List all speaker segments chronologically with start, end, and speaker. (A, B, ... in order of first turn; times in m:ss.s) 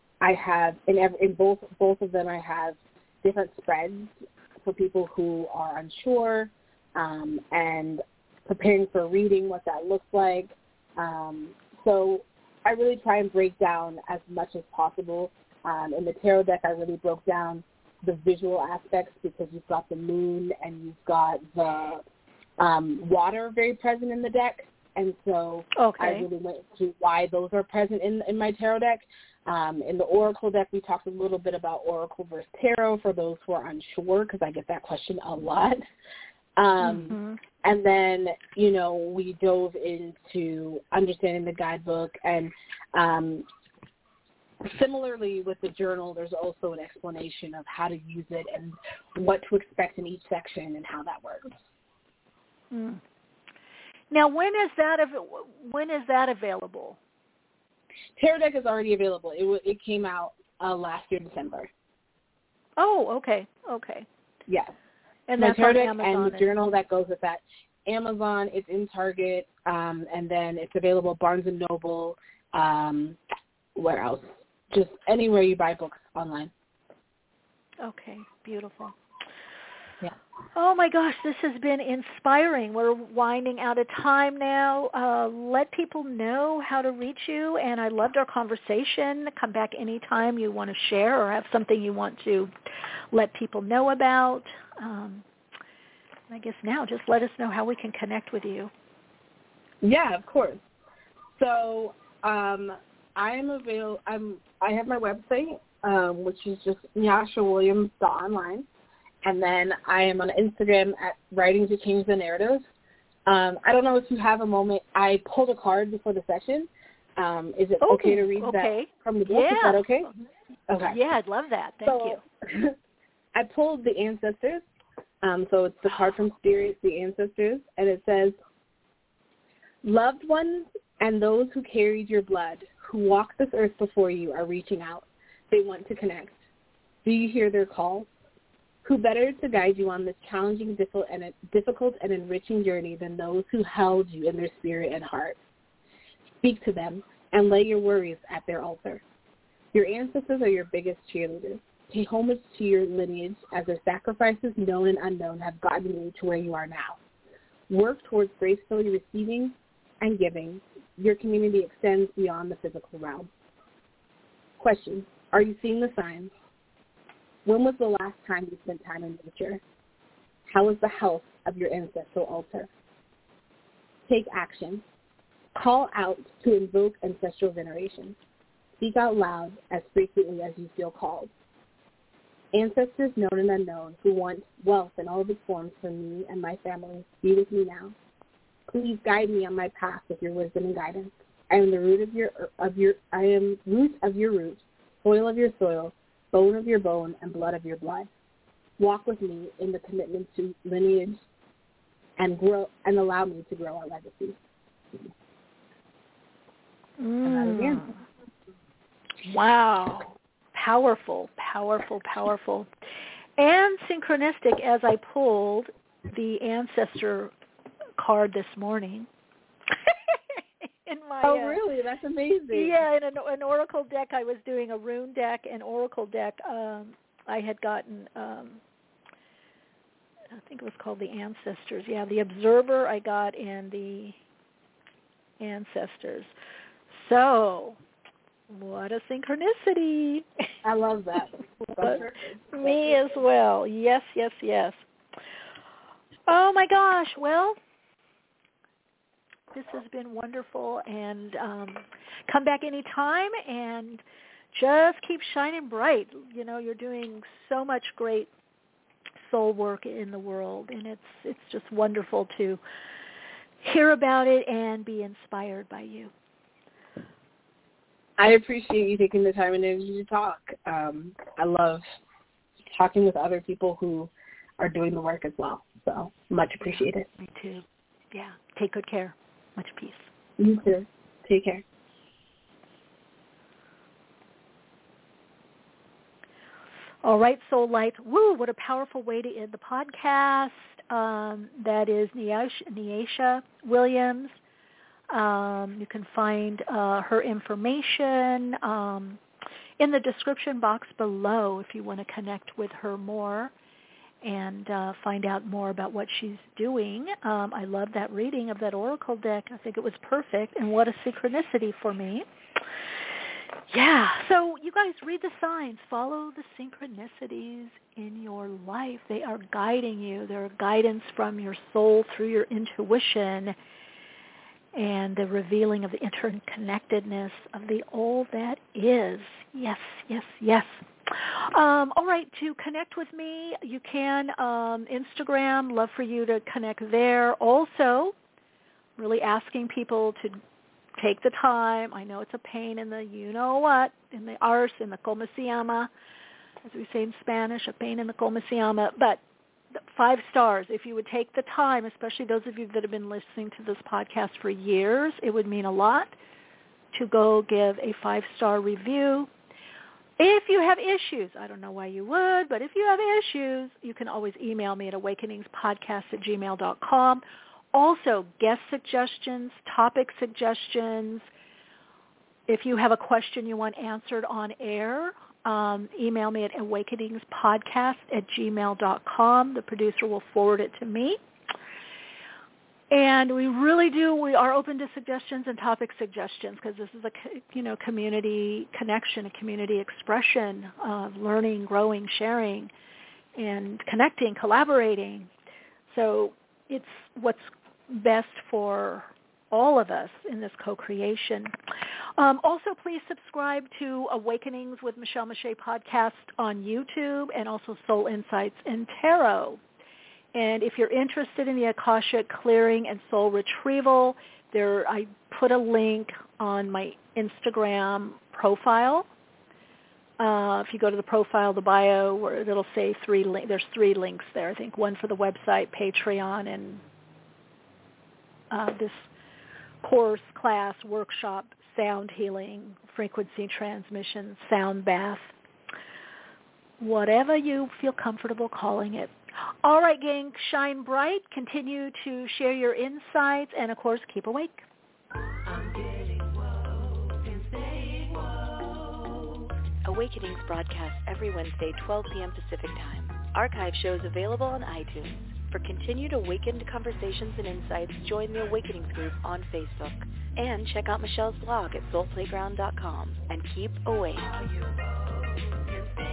0:00.2-0:22.0 A
0:22.6-0:35.8 A
0:25.8-0:26.3 B
0:36.6-0:43.4 A
0:36.8-0:37.4 B
0:44.6-0:51.5 A
0:52.7-0:53.0 B
0:54.1-0:57.0 B
0:58.2-1:01.7 A
1:02.8-1:04.0 B
1:04.5-1:04.7 A
1:05.3-1:06.5 B
1:05.4-1:13.2 A
1:13.8-1:16.5 A
1:17.8-1:18.9 B
1:20.6-1:32.5 B
1:33.1-1:35.2 B
1:36.3-1:38.7 B
1:39.8-1:40.6 A
1:41.4-1:48.6 A
1:49.2-1:52.6 A
1:53.2-2:00.1 A
1:57.8-1:59.9 B
2:00.7-2:01.0 A
2:00.8-2:02.2 B
2:01.8-2:02.7 A
2:03.3-2:04.6 A
2:05.2-2:08.4 A
2:09.8-2:16.4 A
2:17.0-2:18.1 A
2:18.8-2:25.4 A
2:26.4-2:29.0 A
2:29.7-2:37.0 A
2:37.7-2:43.3 A
2:44.6-2:46.3 A
2:47.4-2:49.6 A
2:50.5-2:52.7 A
2:54.1-2:54.8 A
2:55.5-2:58.2 A
2:58.8-3:01.3 A
3:02.5-3:07.9 A
3:08.7-3:18.1 A
3:18.8-3:21.2 A
3:22.2-3:24.4 A
3:27.0-3:27.9 B
3:27.2-3:27.9 A
3:29.2-3:32.7 B
3:33.4-3:37.3 B
3:38.0-3:39.1 B
3:39.9-3:41.6 B
3:41.2-3:42.8 A
3:42.5-3:48.6 B
3:50.3-3:54.2 B
3:55.4-3:56.3 B
3:56.9-3:57.8 B
3:58.5-4:00.2 B
4:00.6-4:03.0 A
4:01.8-4:04.8 B
4:06.3-4:07.6 B
4:09.5-4:18.3 B
4:19.2-4:22.6 B
4:23.6-4:26.1 B
4:28.2-4:31.8 A
4:32.7-4:37.1 A
4:36.6-4:40.1 B
4:40.4-4:41.6 A
4:47.0-4:54.4 B
4:55.1-4:59.2 B
4:59.8-5:03.5 B
5:04.2-5:12.2 B
5:13.7-5:23.6 B
5:24.7-5:38.1 B
5:39.0-5:40.4 B
5:41.0-5:45.9 B
5:46.6-5:49.2 B
5:49.7-5:56.1 B
5:56.9-5:59.3 B
6:00.2-6:11.3 B
6:12.5-6:21.2 B
6:22.9-6:32.7 B
6:33.4-6:35.3 B
6:35.9-6:41.5 B
6:42.2-6:49.6 B
6:50.3-6:59.1 B
7:00.2-7:06.8 B
7:08.5-7:09.1 B
7:09.8-7:15.3 B
7:16.8-7:19.1 B
7:19.6-7:24.6 B
7:25.5-7:26.5 C
7:27.3-7:28.1 C
7:29.8-7:44.5 C